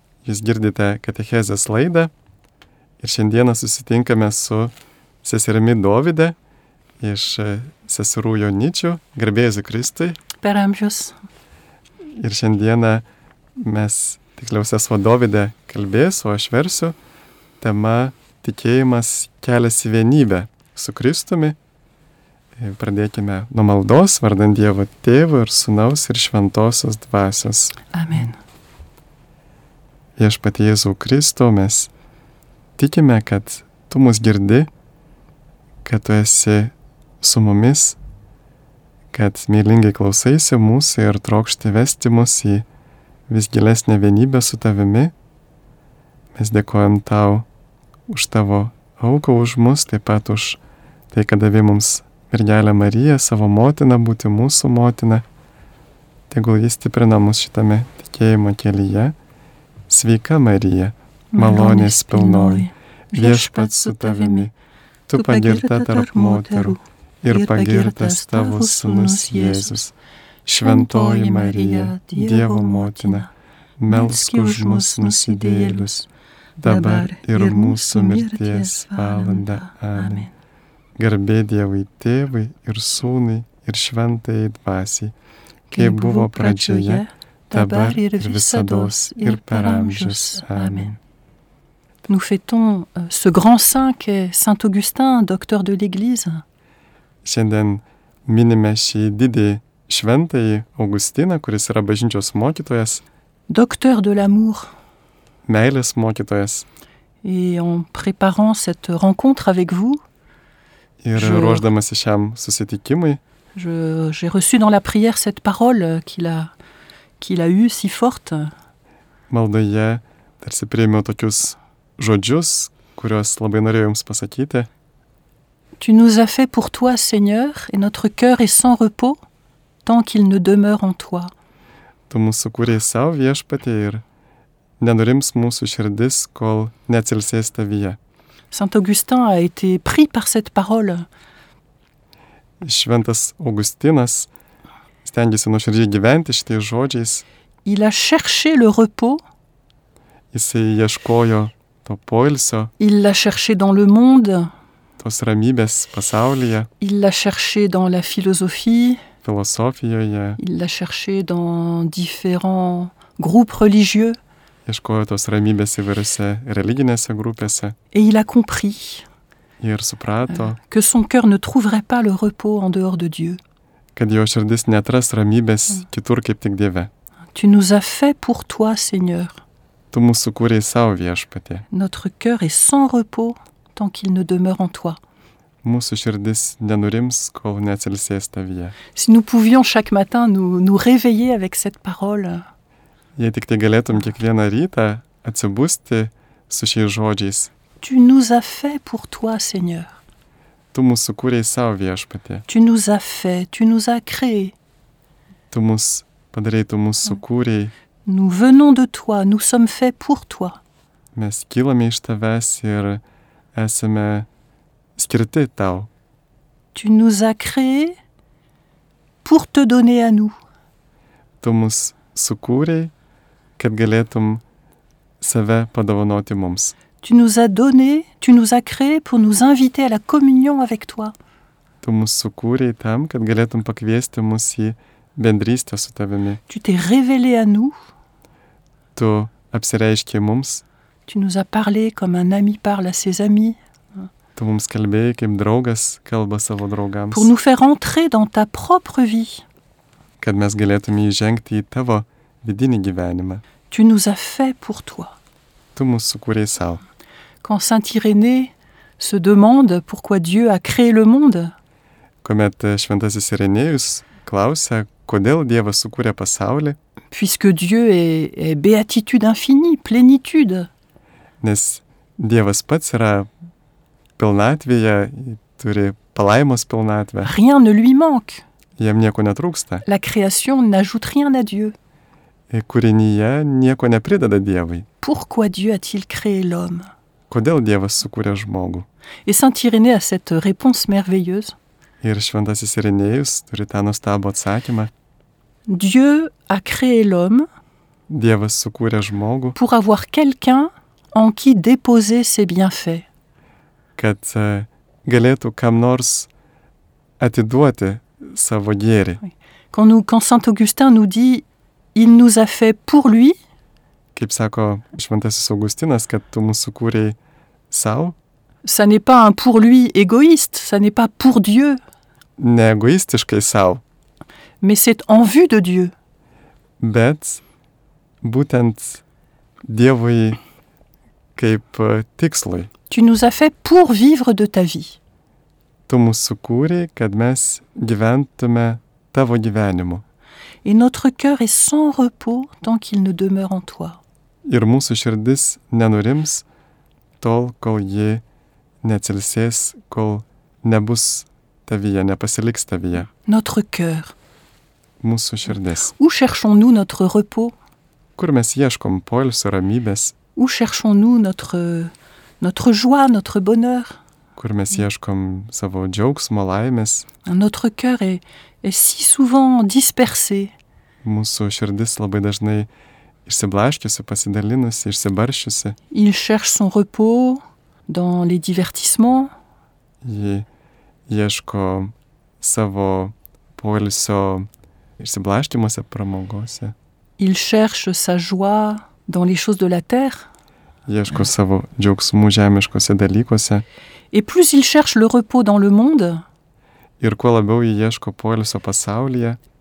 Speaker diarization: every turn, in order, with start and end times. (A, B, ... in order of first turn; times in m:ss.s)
0:00.2-0:02.1 A
0:03.0-0:06.4 A
0:07.0-0:10.2 A
0:10.4-0:11.2 B
0:12.2-0:13.0 A
0:13.6-0:17.0 A
0:17.6-0:21.6 A
0:22.6-0:27.8 A
0:27.9-0:28.4 B
0:30.2-0:31.9 A
0:32.8-0:34.7 A
0:35.8-0:38.0 A
0:39.1-0:42.6 A
0:43.3-0:45.1 A
0:46.3-0:47.4 A
0:48.1-0:50.6 A
0:51.1-0:55.2 A
0:56.3-0:59.2 A
0:59.9-1:04.5 A
1:01.3-1:04.5 B
1:05.1-1:09.9 A
1:05.1-1:06.8 B
1:07.3-1:09.8 B
1:10.4-1:13.3 B
1:10.5-1:13.3 A
1:13.8-1:16.0 A
1:13.9-1:16.1 B
1:16.6-1:20.3 A
1:16.6-1:20.3 B
1:21.0-1:25.1 A
1:25.7-1:30.9 B
1:25.7-1:31.0 A
1:32.1-1:36.4 B
1:37.2-1:43.0 A
1:43.5-1:44.7 B
1:45.5-1:46.7 A
1:47.2-1:50.0 B
1:51.0-1:53.2 A
1:51.2-1:51.6 B
1:53.5-1:56.5 B
1:57.2-1:58.5 B
1:59.3-2:04.7 A
2:05.8-2:09.2 B
2:09.8-2:11.3 B
2:12.1-2:14.0 A
2:14.8-2:18.0 A
2:18.5-2:21.1 B
2:22.6-2:24.3 A
2:25.0-2:27.2 A
2:27.6-2:29.2 B
2:30.3-2:32.7 A
2:32.8-2:34.5 B
2:35.0-2:36.7 A
2:36.8-2:39.0 B
2:39.2-2:40.4 A
2:40.4-2:44.2 B
2:44.6-2:47.8 A
2:47.9-2:49.0 B
2:49.6-2:50.6 A
2:50.3-2:53.4 B
2:54.0-2:56.9 A
2:57.3-2:59.4 B
2:59.9-3:01.6 A
3:01.7-3:05.0 B
3:05.6-3:08.8 A
3:08.9-3:12.4 B
3:13.2-3:17.5 A
3:17.8-3:20.0 B
3:20.7-3:22.4 A
3:22.5-3:24.5 B
3:25.5-3:27.7 A
3:28.0-3:30.6 B
3:31.1-3:33.0 A
3:33.5-3:34.3 A
3:35.0-3:35.9 A
3:36.7-3:38.0 B
3:39.2-3:40.4 B
3:41.4-3:42.9 A
3:43.6-3:44.4 A
3:45.2-3:46.8 A
3:47.0-3:51.1 B
3:51.8-3:56.4 A
3:56.5-3:57.7 B
3:58.9-4:00.6 A
4:01.1-4:04.1 B
4:04.4-4:07.3 A
4:07.1-4:09.4 B
4:10.2-4:13.4 A
4:13.7-4:15.2 B
4:15.8-4:16.8 A
4:17.4-4:21.5 B
4:22.2-4:26.8 A
4:27.1-4:30.7 B
4:31.4-4:33.3 A
4:34.2-4:37.3 A
4:37.2-4:38.4 B
4:38.8-4:39.8 A
4:39.8-4:41.7 B
4:42.5-4:44.9 A
4:45.0-4:46.9 B
4:47.3-4:48.9 A
4:49.2-4:51.6 B
4:52.0-4:54.9 A
4:55.7-4:57.4 B
4:58.1-4:59.6 A
4:59.6-5:03.0 B
5:04.0-5:06.3 A
5:07.2-5:09.2 A
5:09.7-5:13.4 B
5:14.1-5:17.2 A
5:17.7-5:18.2 A
5:18.6-5:21.8 B
5:22.4-5:23.8 A
5:24.6-5:25.9 B
5:26.8-5:27.4 A
5:28.2-5:29.0 A
5:29.6-5:30.4 A
5:31.4-5:32.7 A
5:32.9-5:35.0 B
5:35.9-5:40.0 A
5:40.6-5:44.0 B
5:44.4-5:46.4 A
5:47.2-5:48.2 A
5:48.8-5:53.1 A
5:53.2-5:54.1 B
5:55.0-5:55.9 A
5:56.0-5:57.5 B
5:58.2-6:00.2 A
6:00.4-6:04.0 B
6:04.4-6:07.0 A
6:07.2-6:10.5 B
6:11.0-6:12.7 A
6:13.2-6:15.8 A
6:15.9-6:19.3 B
6:20.0-6:20.5 A
6:21.1-6:24.5 A
6:25.0-6:26.7 A
6:27.2-6:30.3 B
6:30.9-6:33.6 A
6:34.1-6:36.2 B
6:37.0-6:39.4 A